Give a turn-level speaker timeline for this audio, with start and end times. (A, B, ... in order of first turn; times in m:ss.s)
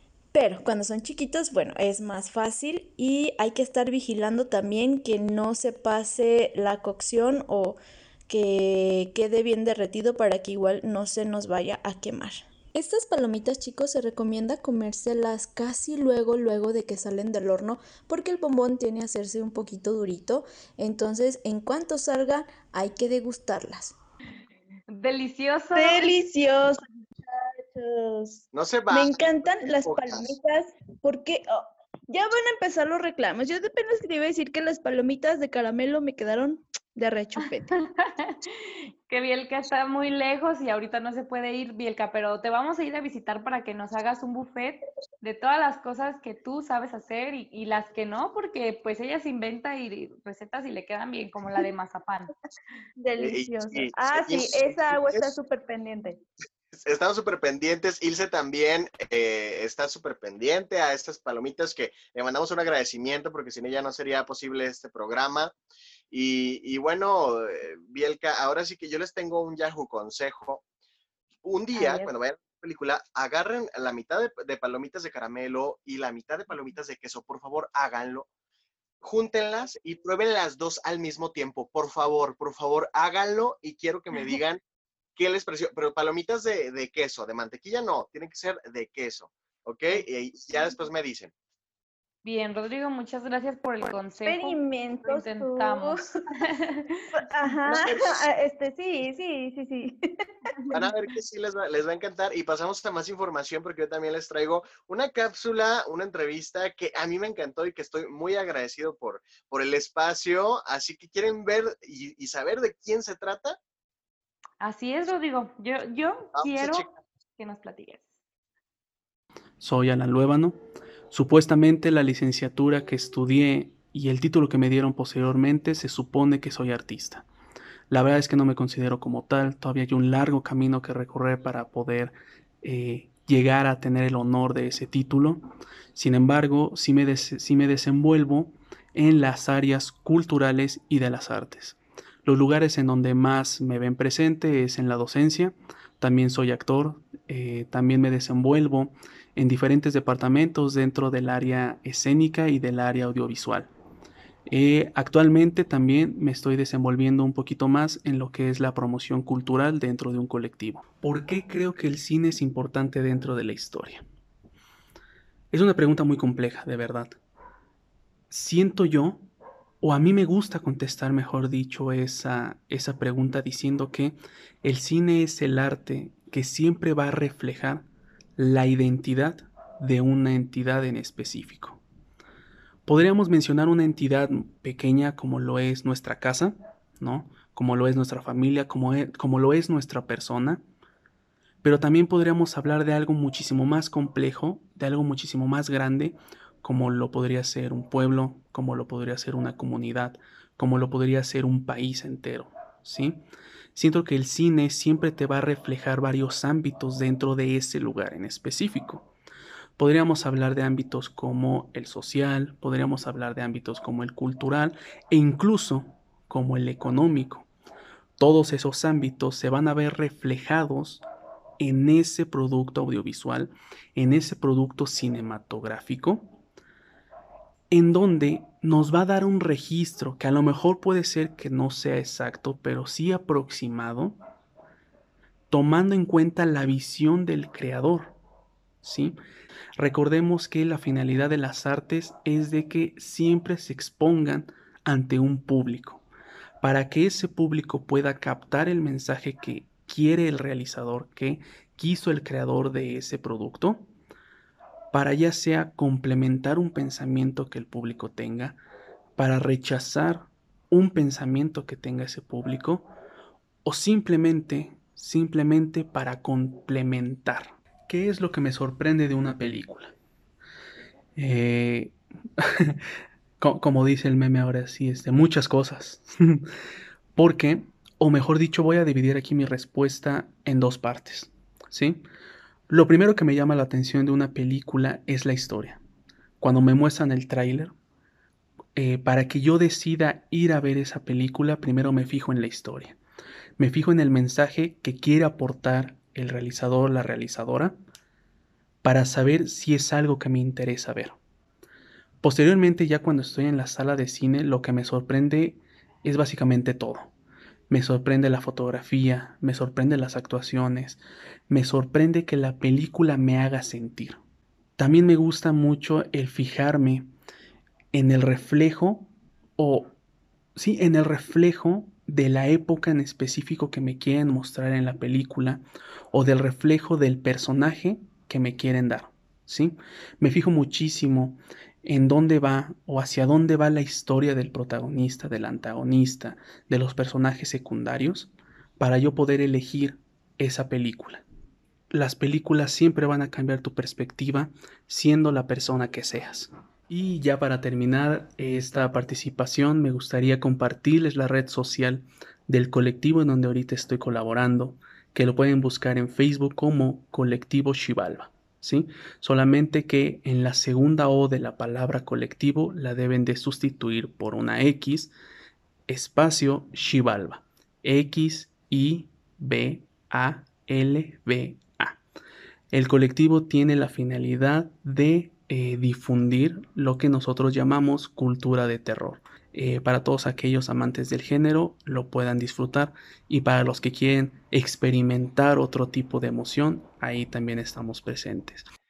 0:00.3-0:24.0 A
0:24.9-0:26.1 B
0:25.7-0:37.7 C
0:28.5-0:30.3 D
0:37.7-0:52.3 B
0:53.0-0:56.2 C
0:53.2-0:55.3 D
0:56.7-1:05.5 D
1:06.1-1:10.6 D
1:11.4-1:18.3 D
1:11.8-1:12.1 B
1:19.0-1:24.6 D
1:25.2-1:31.3 D
1:32.2-1:37.1 B
1:34.2-1:36.0 C
1:37.2-1:40.8 C
1:37.7-1:38.2 D
1:40.7-1:53.6 D
1:54.6-1:56.9 B
1:56.3-1:57.0 D
1:57.4-1:58.1 B
1:59.6-2:00.6 E
2:01.1-2:07.2 E
2:07.9-2:15.4 E
2:15.9-2:33.7 E
2:34.5-2:44.0 E
2:45.5-2:47.1 E
2:48.3-2:49.2 E
2:49.8-2:57.8 E
2:58.4-3:01.8 E
3:02.8-3:10.6 E
3:11.6-3:23.2 E
3:23.7-3:29.1 E
3:29.8-3:37.5 E
3:38.2-3:41.0 E
3:41.6-3:46.4 E
3:47.7-3:54.2 E
3:55.5-3:58.2 E
3:58.8-3:59.1 E
3:59.8-4:06.0 E
4:06.6-4:13.8 E
4:14.9-4:18.6 E
4:19.2-4:22.9 E
4:23.6-4:29.9 E
4:31.2-4:31.9 E
4:33.4-4:36.4 E
4:37.2-4:42.0 E
4:42.7-4:45.8 E
4:46.4-4:47.7 E
4:48.8-4:53.0 E
4:53.6-4:57.7 E
4:58.8-5:01.2 E
5:02.2-5:07.1 E
5:07.7-5:14.2 E
5:14.8-5:17.1 E
5:17.9-5:19.9 E
5:20.6-5:25.6 E
5:26.1-5:41.2 E
5:41.9-6:05.1 E
6:05.9-6:12.0 E
6:12.7-6:28.6 E